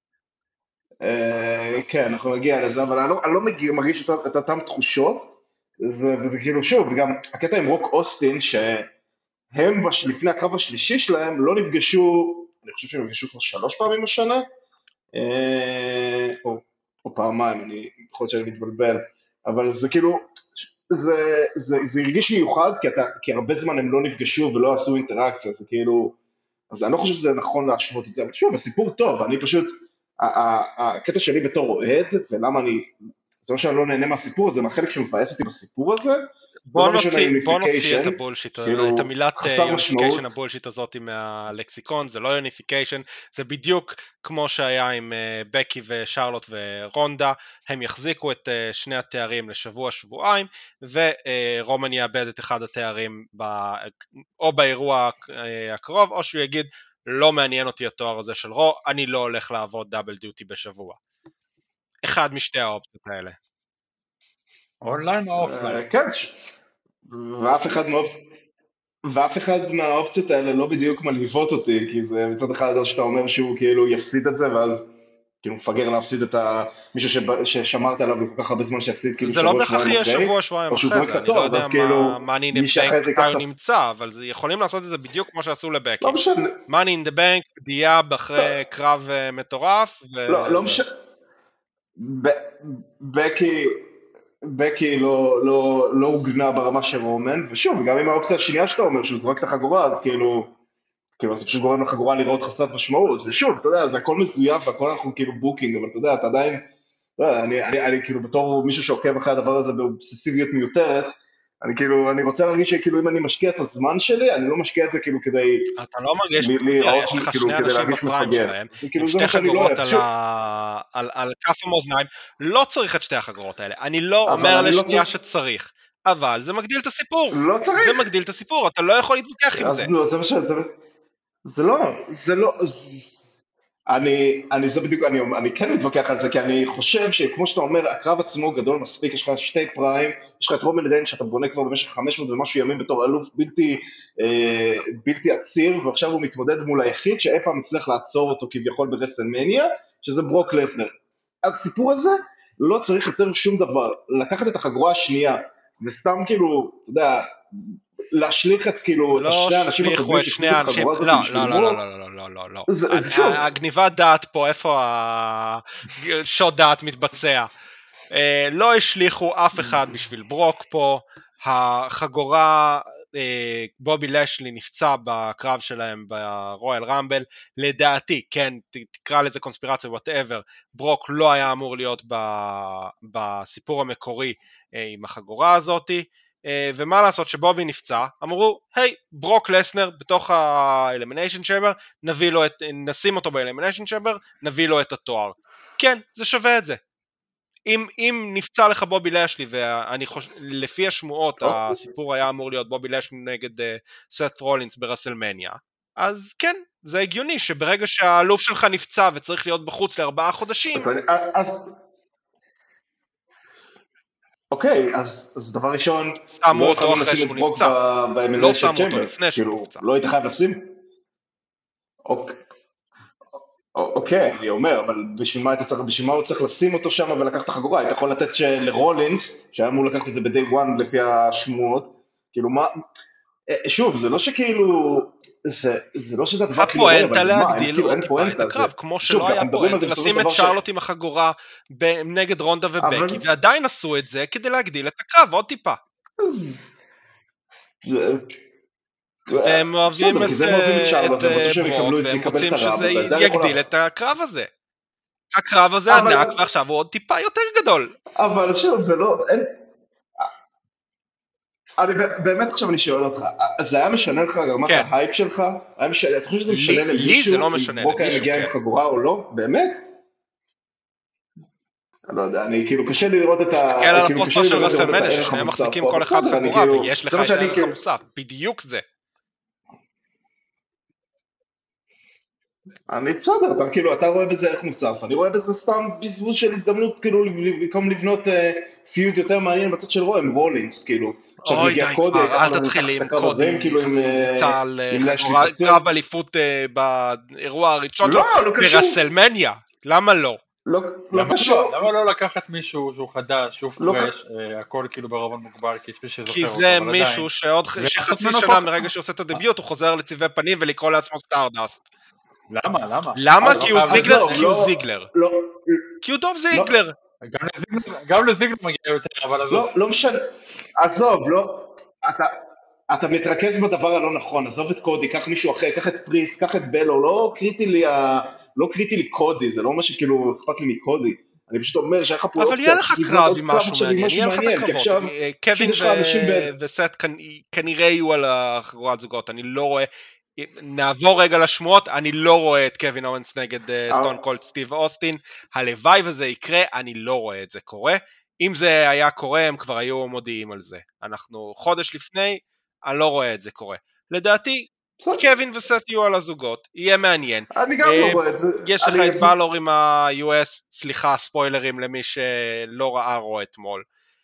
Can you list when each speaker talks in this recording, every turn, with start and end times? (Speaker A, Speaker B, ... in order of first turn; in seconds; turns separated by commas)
Speaker A: 1.0-8.9, Speaker A: 9.5-14.4, Speaker A: 15.1-26.2, Speaker A: 26.7-40.3, Speaker B: 36.7-61.0, Speaker B: 62.0-63.4, Speaker C: 64.8-65.8, Speaker A: 65.3-66.4, Speaker A: 67.0-68.2, Speaker A: 69.0-74.9, Speaker A: 75.4-83.4, Speaker B: 79.2-86.2, Speaker A: 86.0-86.6, Speaker B: 86.7-90.8, Speaker A: 90.3-90.9, Speaker A: 92.0-93.8, Speaker A: 94.4-100.5, Speaker A: 101.2-106.6, Speaker A: 107.2-115.7, Speaker B: 115.8-129.9, Speaker A: 116.4-120.0, Speaker A: 124.2-125.0, Speaker A: 127.3-128.1, Speaker A: 129.5-130.7, Speaker A: 131.4-133.3, Speaker A: 133.9-161.8, Speaker B: 159.2-167.5, Speaker A: 162.7-163.5, Speaker B: 168.1-196.8, Speaker B: 197.7-210.9, Speaker A: 201.4-201.8, Speaker A: 210.7-211.7, Speaker A: 214.5-220.7, Speaker B: 216.3-217.7, Speaker B: 218.4-219.8, Speaker A: 222.1-222.4, Speaker A: 223.7-232.7, Speaker A: 233.5-240.6, Speaker B: 236.6-245.8, Speaker A: 242.8-243.2, Speaker A: 246.2-246.6, Speaker A: 247.8-248.4, Speaker A: 249.3-253.6, Speaker B: 249.4-254.5, Speaker B: 255.3-257.9, Speaker A: 255.9-256.4, Speaker A: 258.1-259.6, Speaker A: 261.8-269.8, Speaker B: 266.5-268.5, Speaker A: 272.1-277.8, Speaker B: 273.5-278.8, Speaker A: 282.9-295.9, Speaker B: 291.4-300.4, Speaker A: 298.0-299.0, Speaker A: 300.6-301.8, Speaker C: 301.1-309.4, Speaker A: 303.8-304.1, Speaker B: 306.3-311.8, Speaker C: 312.5-314.5, Speaker B: 313.1-315.1, Speaker A: 313.4-316.0, Speaker B: 316.0-316.9, Speaker C: 317.2-319.7, Speaker A: 319.5-320.2, Speaker A: 320.8-322.4, Speaker A: 322.9-336.5, Speaker B: 332.4-363.8, Speaker A: 343.9-344.2, Speaker A: 355.0-355.2, Speaker A: 357.5-359.3